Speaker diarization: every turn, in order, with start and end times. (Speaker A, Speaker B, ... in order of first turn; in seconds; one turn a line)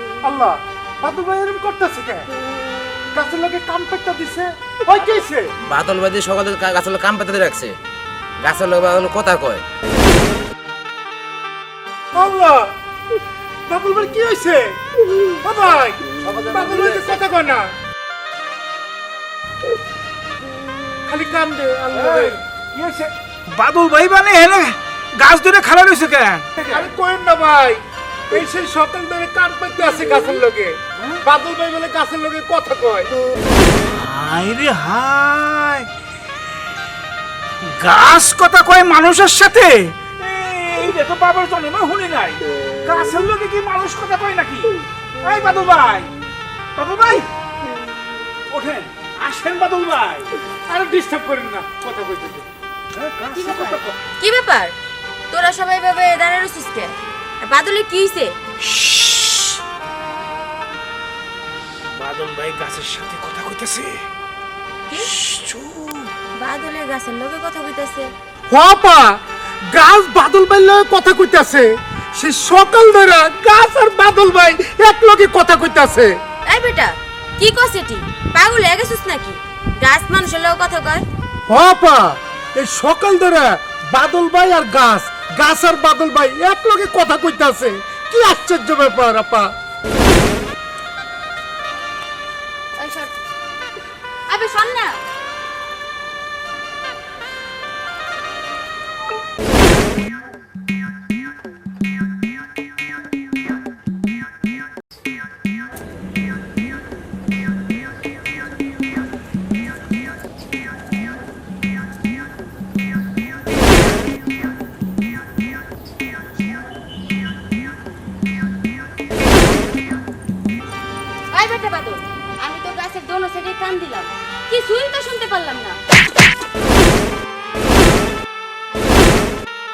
Speaker A: 0.2-2.3
Speaker A: 3.1-5.5
Speaker B: 5.6-7.8
Speaker B: 8.4-9.6
Speaker A: 12.1-12.7
Speaker A: 13.7-14.8
Speaker A: 15.4-17.7
Speaker A: 21.1-22.4
Speaker C: 21.9-26.8
Speaker A: 26.6-33.1
Speaker C: 33.9-35.9
Speaker C: 37.6-46.1
Speaker C: 46.8-47.3
Speaker C: 48.5-50.3
Speaker A: 50.7-52.5
Speaker C: 52.9-54.0
Speaker D: 53.4-54.7
Speaker D: 55.3-58.4
Speaker C: 58.6-59.6
Speaker C: 61.9-64.1
Speaker C: 65.0-66.1
Speaker D: 66.3-68.1
Speaker A: 68.5-69.2
Speaker A: 69.7-76.2
Speaker D: 76.5-81.0
Speaker A: 81.5-89.5
Speaker D: 92.8-93.1
Speaker D: 94.3-95.0
Speaker D: 121.3-125.8